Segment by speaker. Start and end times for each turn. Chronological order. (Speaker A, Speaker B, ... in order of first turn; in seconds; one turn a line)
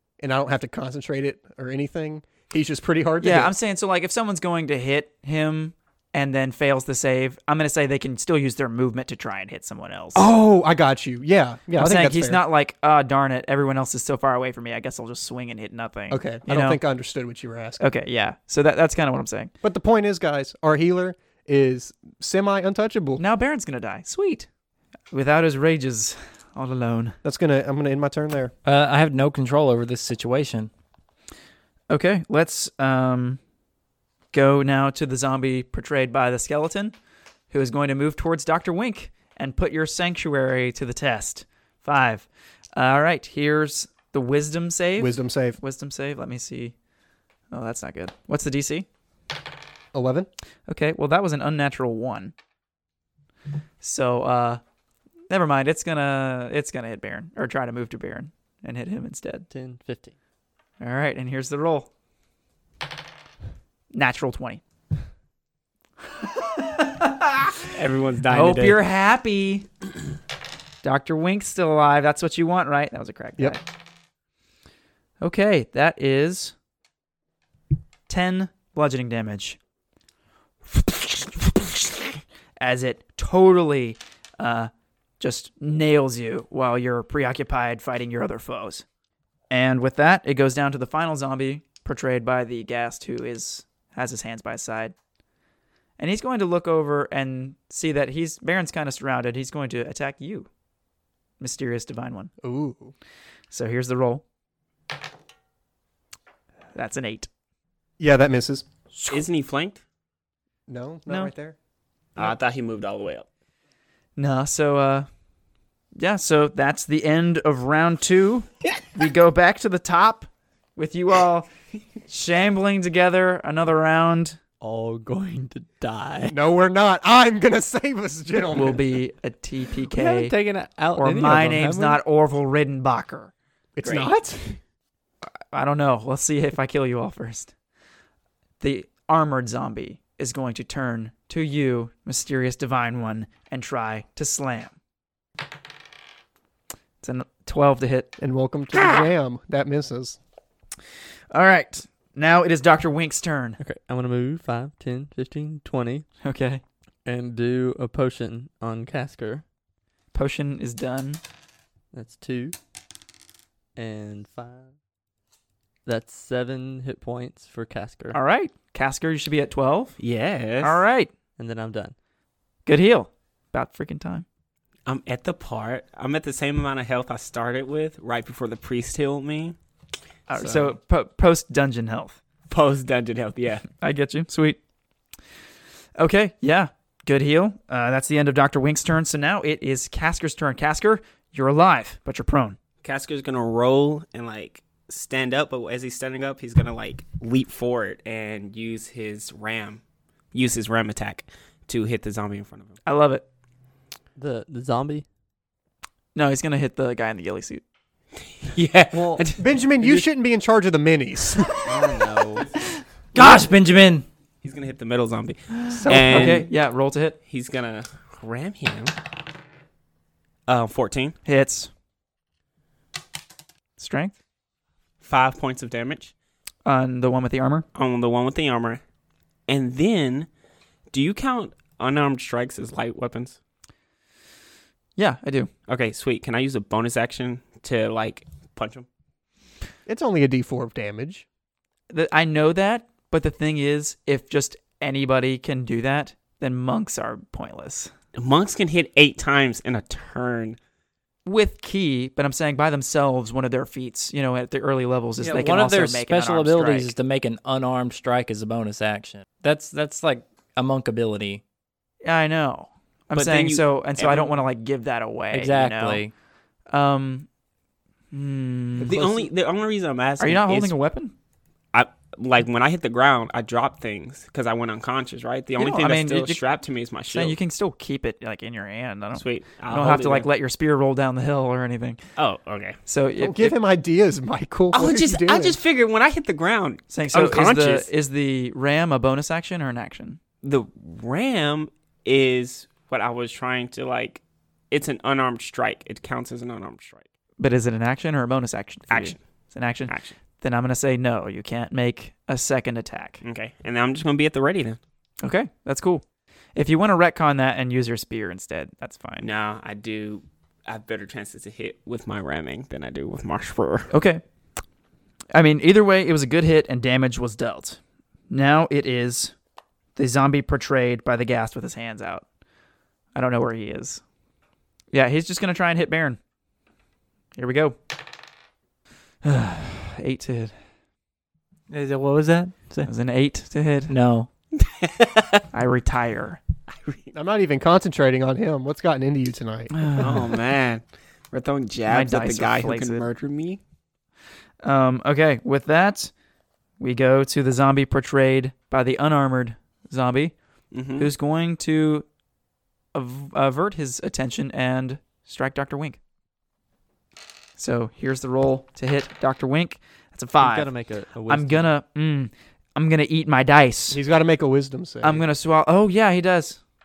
Speaker A: 0.2-3.5
Speaker B: 3.2-10.2
Speaker A: 10.2-12.4
Speaker B: 11.8-16.8
Speaker A: 16.1-17.8
Speaker B: 17.8-19.5
Speaker A: 19.6-23.2
Speaker B: 23.2-24.5
Speaker B: 25.1-27.2
Speaker A: 27.2-28.5
Speaker C: 28.6-30.7
Speaker B: 31.9-33.4
Speaker B: 34.3-37.0
Speaker B: 37.5-46.7
Speaker A: 45.0-45.6
Speaker B: 47.5-48.9
Speaker A: 49.9-50.3
Speaker B: 50.7-52.3
Speaker B: 53.8-54.6
Speaker B: 55.3-59.5
Speaker D: 59.5-60.1
Speaker B: 60.8-61.9
Speaker B: 63.9-64.6
Speaker B: 66.2-67.6
Speaker E: 67.7-68.8
Speaker B: 68.3-69.7
Speaker B: 70.8-73.6
Speaker B: 75.2-76.5
Speaker B: 78.1-79.6
Speaker B: 80.7-88.8
Speaker B: 89.5-95.0
Speaker B: 96.0-100.5
Speaker B: 101.4-102.3
Speaker A: 102.4-102.9
Speaker B: 103.5-104.2
Speaker B: 106.8-107.3
Speaker A: 108.0-108.7
Speaker B: 109.0-109.2
Speaker E: 109.1-109.8
Speaker A: 110.7-111.6
Speaker E: 112.2-113.3
Speaker B: 114.2-115.1
Speaker B: 116.0-121.5
Speaker B: 122.1-124.4
Speaker D: 124.6-126.3
Speaker A: 126.3-128.8
Speaker B: 128.5-130.3
Speaker D: 129.9-132.0
Speaker B: 130.9-133.3
Speaker A: 133.8-134.6
Speaker E: 133.8-134.1
Speaker B: 135.5-137.5
Speaker B: 138.6-144.7
Speaker B: 147.0-148.1
Speaker A: 148.2-150.2
Speaker B: 151.3-153.6
Speaker D: 153.6-156.1
Speaker B: 156.2-156.6
Speaker D: 157.1-159.4
Speaker B: 160.1-161.2
Speaker D: 161.9-162.6
Speaker D: 163.8-164.7
Speaker D: 165.8-168.2
Speaker B: 168.1-170.0
Speaker E: 170.0-170.8
Speaker B: 170.6-171.1
Speaker D: 171.4-171.9
Speaker B: 172.7-174.2
Speaker E: 174.9-179.6
Speaker B: 180.3-182.2
Speaker E: 180.3-180.7
Speaker E: 182.5-183.7
Speaker B: 183.8-184.6
Speaker B: 186.0-192.6
Speaker E: 192.8-199.8
Speaker E: 200.3-202.8
Speaker B: 202.9-203.2
Speaker D: 204.2-205.1
Speaker B: 206.2-207.6
Speaker E: 208.4-209.4
Speaker D: 208.9-209.3
Speaker A: 209.4-211.8
Speaker E: 211.7-212.4
Speaker D: 211.7-212.4
Speaker B: 213.2-213.6
Speaker C: 213.2-214.1
Speaker E: 214.4-216.5
Speaker A: 215.7-216.4
Speaker B: 215.9-217.2
Speaker E: 217.3-218.9
Speaker E: 220.5-221.2
Speaker B: 221.2-221.7
Speaker B: 223.8-224.2
Speaker E: 225.0-226.1
Speaker B: 226.7-227.7
Speaker E: 227.8-228.8
Speaker E: 229.5-230.3
Speaker E: 230.9-233.4
Speaker B: 235.0-235.5
Speaker E: 235.7-238.9
Speaker A: 239.9-241.2
Speaker B: 241.9-247.9
Speaker E: 248.2-250.6
Speaker B: 251.2-256.9
Speaker C: 255.2-261.4
Speaker B: 262.0-266.0
Speaker E: 263.1-264.4
Speaker C: 265.3-266.1
Speaker B: 266.7-267.3
Speaker B: 268.1-269.0
Speaker A: 268.8-269.3
Speaker E: 268.8-270.7
Speaker B: 270.2-271.1
Speaker E: 271.7-277.4
Speaker B: 275.6-276.4
Speaker B: 277.1-282.0
Speaker E: 279.1-280.3
Speaker E: 282.2-282.8
Speaker B: 282.9-283.6
Speaker A: 283.2-285.6
Speaker E: 284.7-287.9
Speaker B: 286.9-290.2
Speaker E: 290.4-297.1
Speaker B: 297.4-303.2
Speaker E: 298.9-299.2
Speaker E: 299.9-300.2
Speaker E: 303.2-304.8
Speaker B: 305.2-306.0
Speaker B: 306.6-309.3
Speaker E: 309.2-313.9
Speaker B: 313.9-314.2
Speaker B: 315.3-317.8
Speaker B: 318.3-319.3
Speaker B: 320.0-322.2
Speaker B: 323.1-324.0
Speaker B: 324.9-326.2
Speaker B: 327.4-327.8
Speaker B: 329.2-330.6
Speaker C: 331.7-332.9
Speaker B: 332.9-333.9
Speaker C: 333.9-334.3
Speaker E: 334.6-335.4
Speaker B: 335.5-336.4
Speaker E: 336.7-337.0
Speaker A: 337.1-339.7
Speaker B: 339.8-340.2
Speaker E: 340.0-343.6
Speaker B: 341.9-343.1
Speaker B: 344.6-346.1
Speaker B: 346.8-350.3
Speaker E: 350.7-351.1
Speaker B: 351.0-352.1
Speaker B: 352.9-356.0
Speaker B: 357.6-360.7
Speaker D: 360.4-361.7
Speaker B: 361.3-364.0
Speaker A: 363.9-365.3
Speaker B: 365.0-366.6